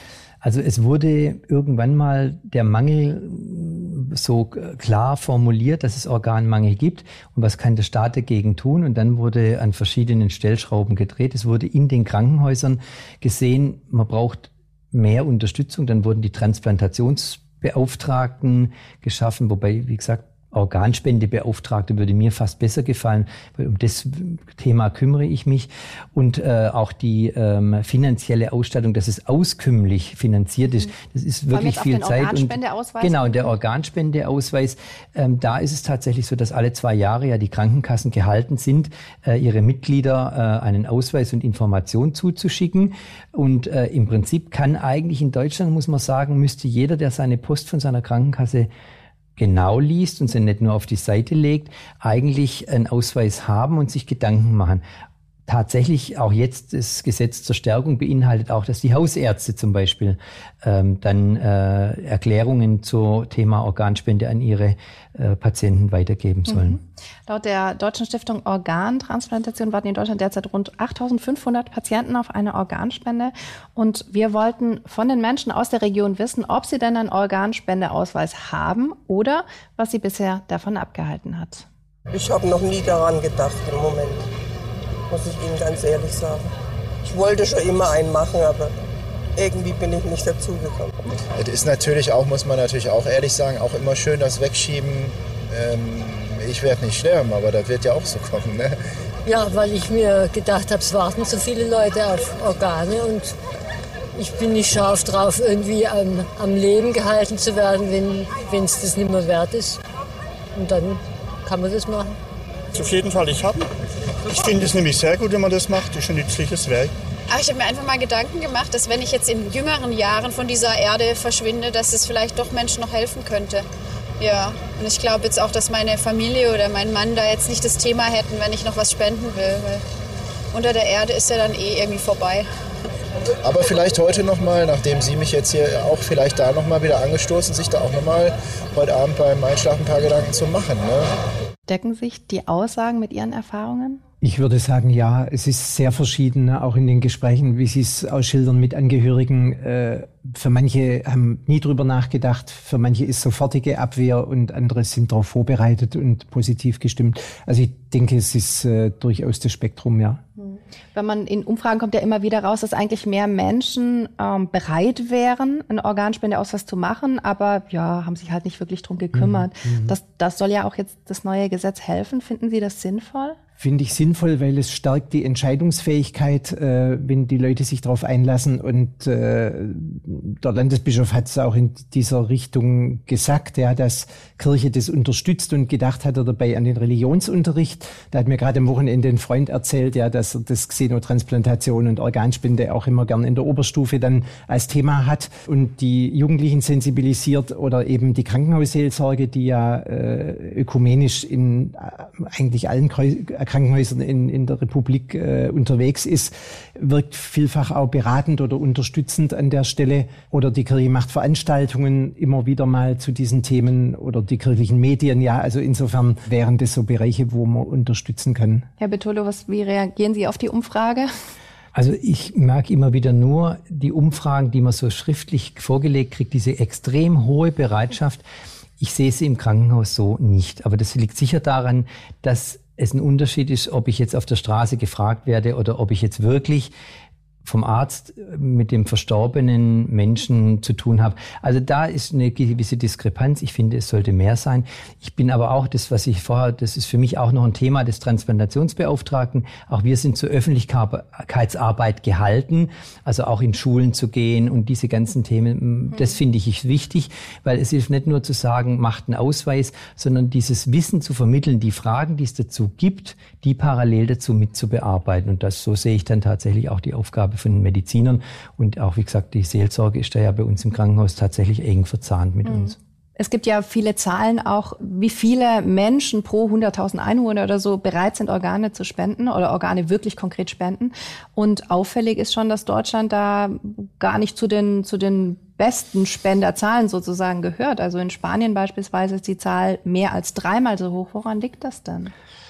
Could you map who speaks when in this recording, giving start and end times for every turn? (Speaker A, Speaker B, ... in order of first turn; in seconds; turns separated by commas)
Speaker A: 0.4-48.7, Speaker B: 31.5-33.5, Speaker A: 49.4-54.8, Speaker A: 55.5-66.8, Speaker B: 66.5-81.7, Speaker C: 82.1-84.2, Speaker C: 85.1-86.5, Speaker C: 87.0-88.7, Speaker C: 89.3-91.0, Speaker D: 91.3-98.7, Speaker E: 99.2-103.3, Speaker E: 104.2-109.8, Speaker E: 110.5-112.2, Speaker F: 112.7-113.6, Speaker F: 114.2-116.9, Speaker G: 117.3-123.6, Speaker G: 124.2-129.8, Speaker G: 130.5-132.5, Speaker D: 133.4-141.1, Speaker B: 141.7-144.0, Speaker H: 144.2-160.2, Speaker B: 160.4-173.4, Speaker H: 169.1-169.9, Speaker H: 173.6-218.7, Speaker B: 218.8-221.1, Speaker A: 221.7-228.2, Speaker A: 228.8-236.7, Speaker A: 237.4-272.8, Speaker B: 272.4-292.1